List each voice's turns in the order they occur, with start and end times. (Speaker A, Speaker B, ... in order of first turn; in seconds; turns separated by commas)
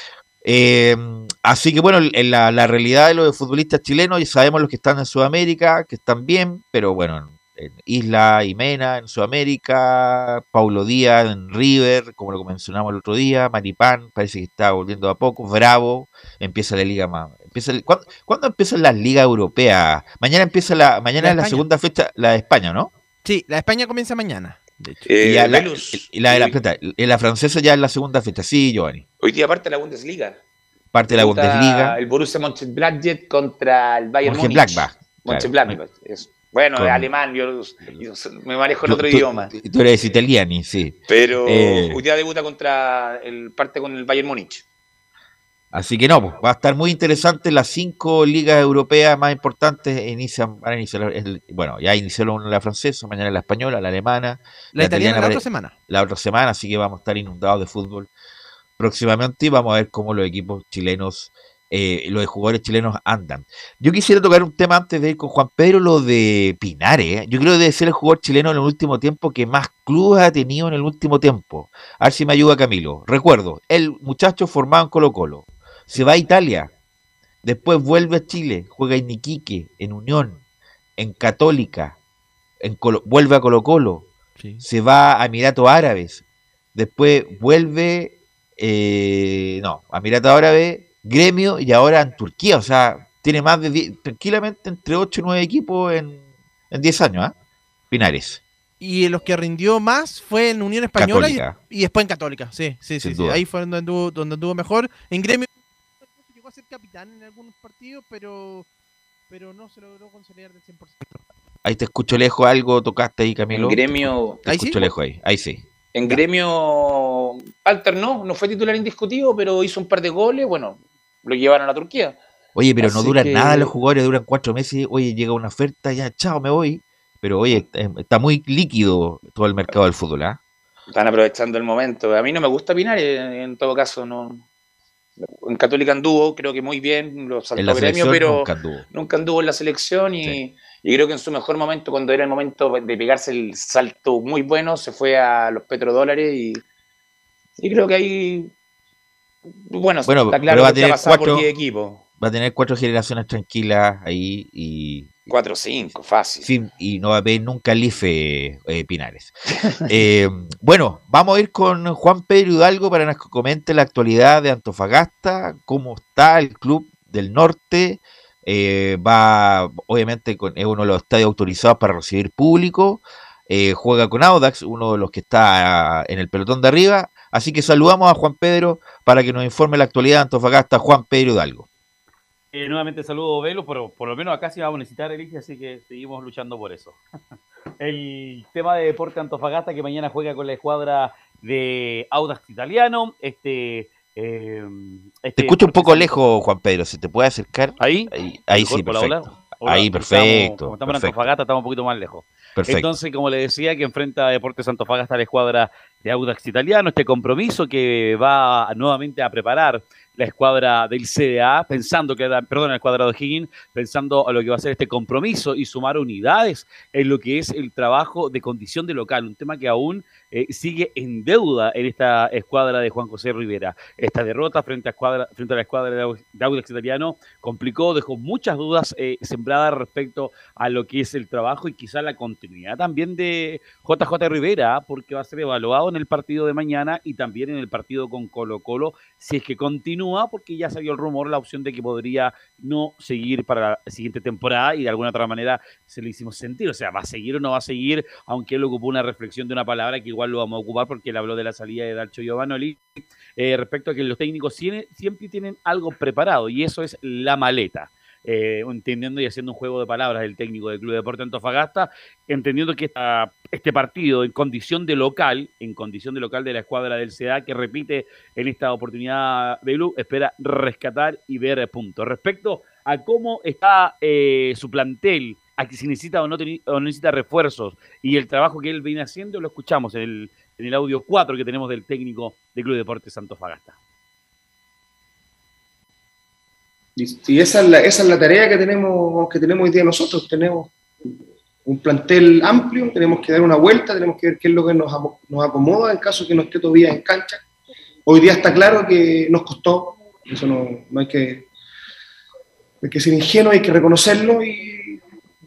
Speaker A: 0.4-22.9, Speaker B: 21.2-21.6, Speaker B: 23.2-24.7, Speaker C: 25.1-26.5, Speaker A: 25.2-29.0, Speaker C: 29.2-30.4, Speaker A: 30.9-32.0, Speaker C: 31.1-39.5, Speaker A: 34.2-35.8, Speaker A: 36.8-37.1, Speaker A: 38.8-42.0, Speaker C: 41.1-44.6, Speaker A: 45.7-58.1, Speaker B: 54.7-55.7, Speaker A: 58.8-76.7, Speaker A: 77.4-80.4, Speaker A: 81.0-82.0, Speaker A: 82.6-84.0, Speaker B: 84.4-84.6, Speaker A: 84.6-86.2, Speaker A: 86.7-97.3, Speaker A: 97.9-98.4, Speaker B: 98.8-105.5, Speaker A: 101.0-101.5, Speaker A: 103.0-103.4, Speaker B: 106.0-108.7, Speaker B: 109.3-111.1, Speaker A: 111.6-113.8, Speaker C: 113.5-114.4, Speaker A: 114.4-116.2, Speaker B: 114.5-114.9, Speaker C: 115.9-122.2, Speaker A: 122.5-130.4, Speaker C: 122.8-123.7, Speaker C: 130.9-134.4, Speaker C: 135.2-146.6, Speaker A: 137.6-138.8, Speaker C: 147.6-148.5, Speaker C: 149.7-152.0, Speaker A: 150.1-151.4, Speaker A: 152.2-155.3, Speaker C: 155.3-156.5, Speaker A: 156.4-159.3, Speaker A: 159.8-181.7, Speaker D: 182.5-187.0, Speaker D: 187.8-196.2, Speaker A: 195.4-201.3, Speaker D: 197.8-283.7, Speaker A: 202.6-202.9, Speaker E: 286.9-290.7, Speaker E: 291.6-297.4, Speaker E: 298.1-301.5, Speaker E: 302.8-305.0